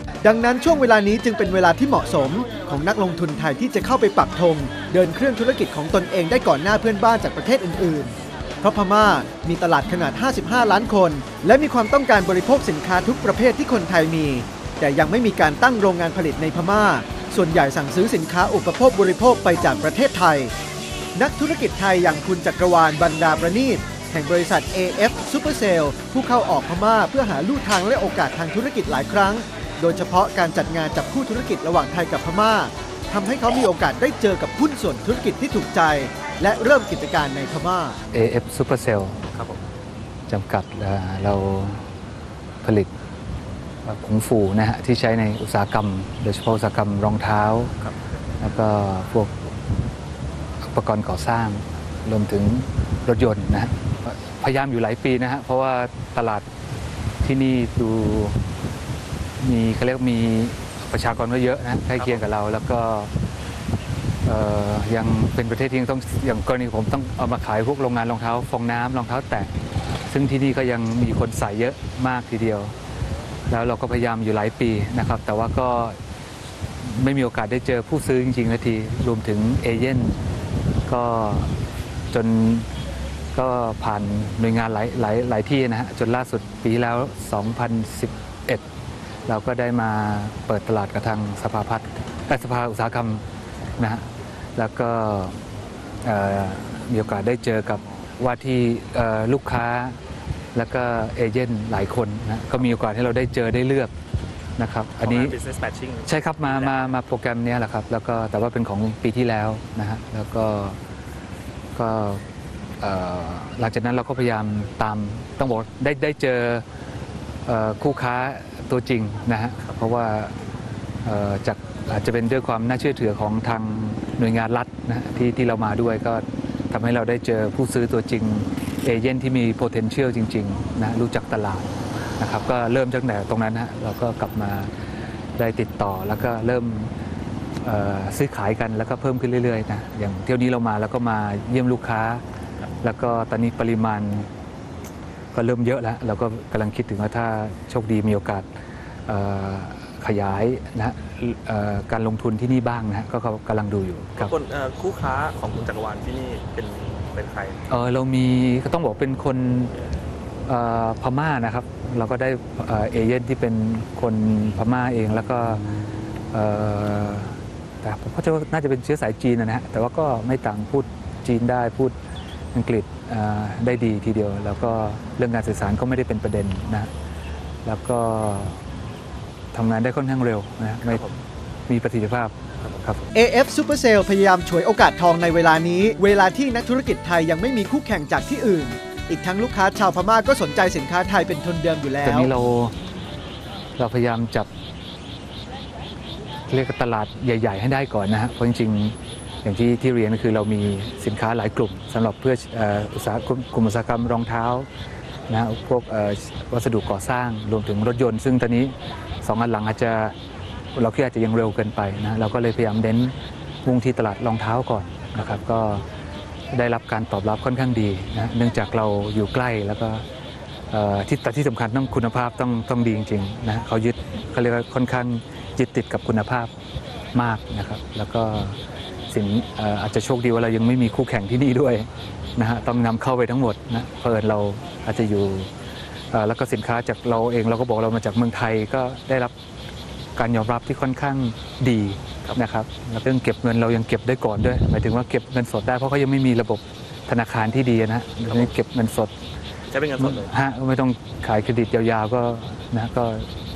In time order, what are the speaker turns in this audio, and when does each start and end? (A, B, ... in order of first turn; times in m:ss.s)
0:00.2-0:20.5 A
0:21.1-0:38.0 A
0:38.1-0:39.2 B
0:39.3-0:39.6 C
0:40.3-0:41.8 B
0:42.6-0:42.9 B
0:43.8-0:47.7 B
0:48.4-0:49.5 B
0:50.7-0:56.4 B
0:57.2-0:58.4 B
0:59.4-1:03.1 B
1:04.2-1:09.5 B
1:10.1-1:12.7 B
1:13.5-1:16.0 B
1:16.8-1:20.2 B
1:20.9-1:21.5 B
1:22.1-1:22.7 B
1:23.3-1:28.6 B
1:29.2-1:33.2 B
1:33.8-1:35.4 B
1:36.0-1:40.0 B
1:40.5-1:43.9 B
1:44.6-1:45.4 B
1:45.0-1:46.7 C
1:46.0-1:50.8 B
1:51.7-1:52.2 B
1:52.8-1:56.6 B
1:57.4-2:00.3 B
2:01.0-2:14.7 B
2:15.4-2:16.9 B
2:17.6-2:22.2 B
2:22.8-2:24.3 B
2:25.3-2:28.5 B
2:29.1-2:34.3 B
2:34.2-2:37.6 C
2:37.7-2:39.7 B
2:40.4-2:45.6 B
2:46.3-2:52.0 B
2:52.5-2:56.9 B
2:57.6-2:58.6 B
2:59.5-3:01.0 B
3:00.8-3:01.2 C
3:01.7-3:03.1 B
3:03.1-3:12.3 A
3:12.0-3:12.7 B
3:13.8-3:14.5 B
3:16.5-3:24.7 B
3:25.3-3:30.1 B
3:30.7-3:33.1 B
3:33.6-3:35.8 B
3:36.5-3:40.0 B
3:40.7-3:46.5 B
3:47.1-3:48.6 B
3:49.1-3:55.5 B
3:56.1-3:59.3 B
4:00.2-4:09.1 B
4:08.2-4:08.5 C
4:09.7-4:10.3 C
4:10.0-4:13.3 B